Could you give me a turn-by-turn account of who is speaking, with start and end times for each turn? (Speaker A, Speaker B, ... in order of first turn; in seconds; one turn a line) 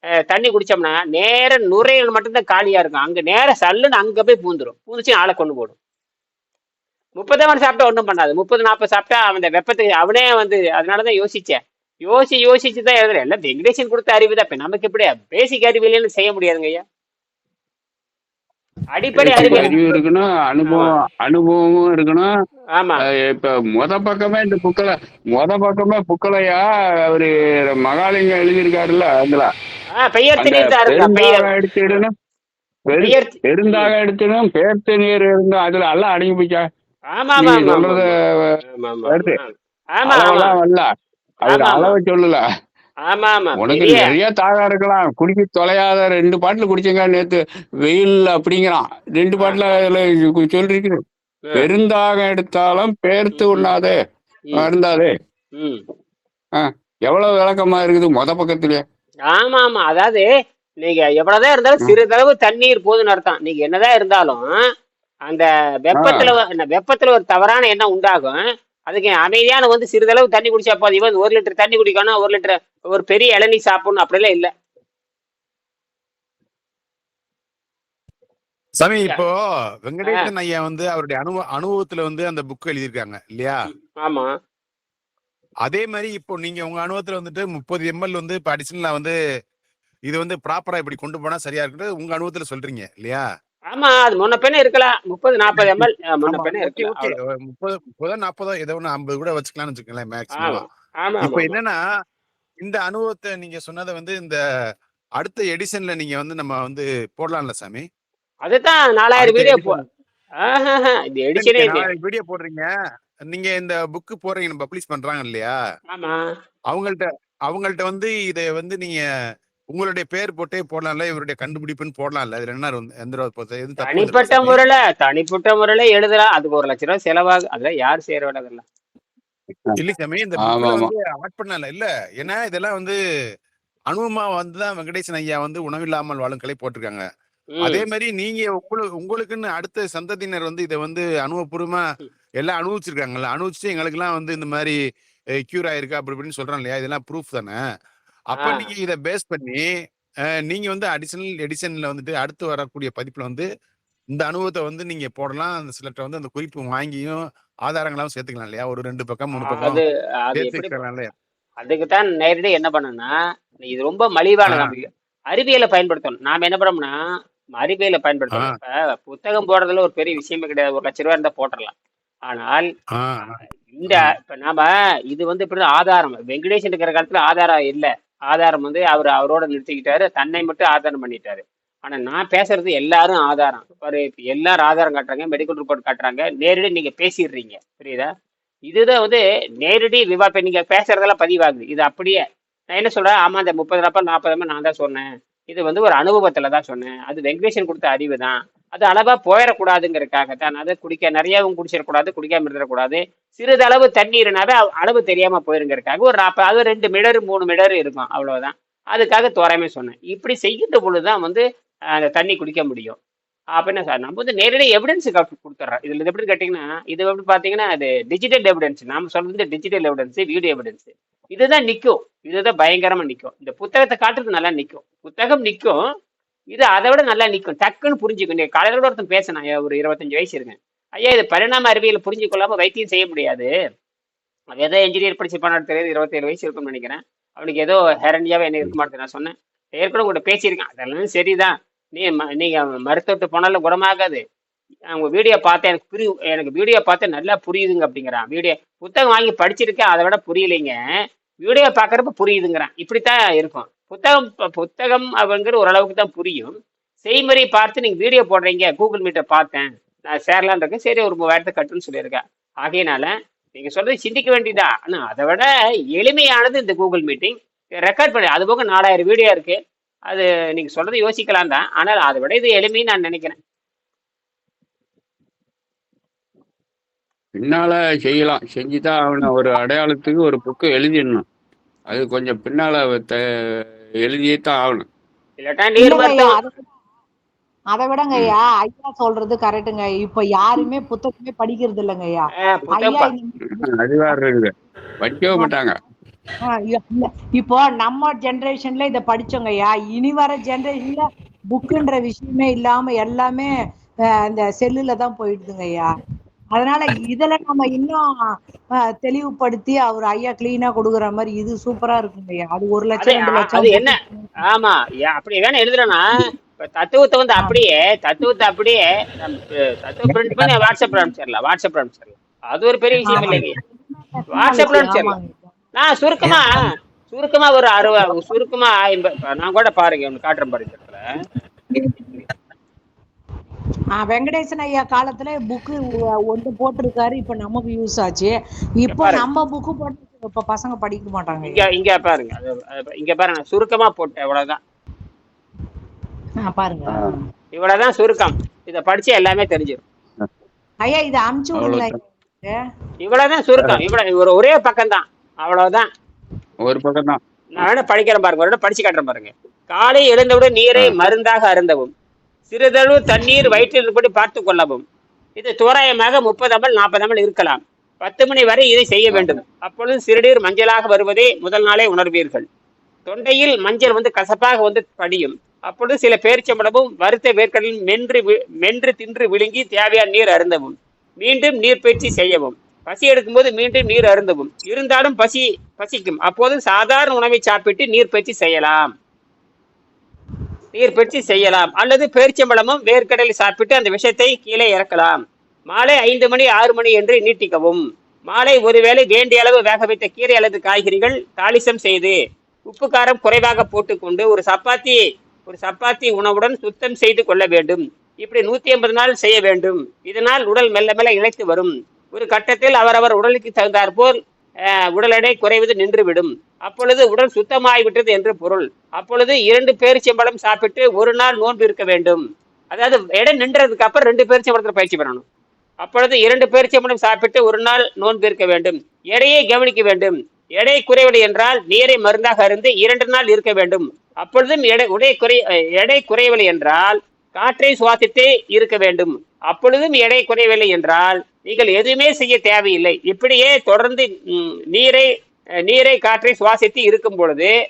Speaker A: 0.3-5.7
Speaker A: 7.2-16.8
Speaker A: 18.9-19.8
Speaker B: 19.2-22.3
Speaker C: 19.4-19.7
Speaker A: 22.8-23.0
Speaker B: 23.3-29.5
Speaker A: 29.9-31.5
Speaker B: 30.4-32.1
Speaker B: 32.9-36.6
Speaker A: 33.0-33.9
Speaker A: 37.1-38.1
Speaker B: 37.4-38.1
Speaker A: 38.7-40.5
Speaker B: 39.1-39.4
Speaker B: 40.0-40.8
Speaker A: 41.5-41.9
Speaker B: 41.5-42.4
Speaker A: 43.1-44.1
Speaker B: 43.6-50.9
Speaker B: 51.6-53.9
Speaker A: 53.4-53.7
Speaker B: 54.6-55.1
Speaker A: 55.5-55.8
Speaker B: 56.6-58.8
Speaker A: 59.3-60.2
Speaker A: 60.8-64.5
Speaker A: 65.3-74.5
Speaker B: 66.0-66.3
Speaker C: 78.8-83.6
Speaker A: 83.9-84.3
Speaker C: 85.6-89.1
Speaker C: 90.1-93.2
Speaker A: 93.7-97.1
Speaker C: 95.6-100.7
Speaker A: 100.3-101.5
Speaker C: 101.2-101.8
Speaker C: 102.6-104.4
Speaker C: 105.2-107.8
Speaker A: 108.5-109.8
Speaker C: 109.2-109.8
Speaker A: 110.4-111.8
Speaker C: 111.3-112.7
Speaker C: 113.3-115.5
Speaker A: 115.9-116.2
Speaker C: 116.7-119.0
Speaker C: 119.7-124.6
Speaker A: 123.8-128.6
Speaker C: 129.8-132.9
Speaker B: 130.4-130.9
Speaker C: 133.9-137.0
Speaker A: 137.5-137.8
Speaker C: 137.6-141.8
Speaker C: 142.4-144.7
Speaker C: 145.4-147.6
Speaker C: 148.3-149.7
Speaker A: 148.4-148.7
Speaker C: 150.4-153.4
Speaker C: 154.1-159.8
Speaker A: 159.4-160.8
Speaker C: 160.3-161.1
Speaker A: 161.6-166.9
Speaker C: 164.4-164.8
Speaker A: 167.6-171.7
Speaker C: 168.3-168.6
Speaker A: 172.3-172.7
Speaker C: 172.9-174.1
Speaker A: 173.7-188.1
Speaker A: 188.7-192.2
Speaker A: 192.7-211.4
Speaker A: 212.0-213.0
Speaker A: 213.6-225.8
Speaker A: 226.5-233.5
Speaker A: 234.5-244.2
Speaker A: 244.9-250.8
Speaker A: 251.4-269.6
Speaker A: 270.1-273.3
Speaker B: 277.4-281.2
Speaker B: 281.9-283.1
Speaker B: 284.0-284.9
Speaker A: 285.4-286.3
Speaker D: 285.8-286.8
Speaker D: 287.7-294.2
Speaker A: 292.4-293.1
Speaker B: 293.5-294.5
Speaker B: 295.0-295.8
Speaker D: 295.2-295.8
Speaker D: 296.4-303.5
Speaker D: 304.3-305.9
Speaker D: 306.6-308.0
Speaker D: 309.0-314.3
Speaker A: 313.0-313.9
Speaker A: 314.5-316.2
Speaker A: 316.8-323.5
Speaker D: 317.4-317.7
Speaker D: 323.1-325.5
Speaker A: 324.3-325.1
Speaker A: 325.8-331.0
Speaker D: 334.0-341.6
Speaker A: 338.9-339.2
Speaker A: 341.4-344.6
Speaker D: 346.4-347.2
Speaker B: 346.9-347.1
Speaker A: 347.5-349.8
Speaker D: 350.8-352.6
Speaker B: 351.5-352.0
Speaker A: 353.0-355.9
Speaker B: 356.6-357.6
Speaker A: 357.6-361.9
Speaker A: 362.5-364.8
Speaker A: 365.4-372.4
Speaker A: 373.1-388.9
Speaker A: 390.7-395.2
Speaker A: 395.7-402.1
Speaker A: 402.7-414.1
Speaker A: 414.9-425.2
Speaker A: 425.8-445.1
Speaker A: 445.7-447.5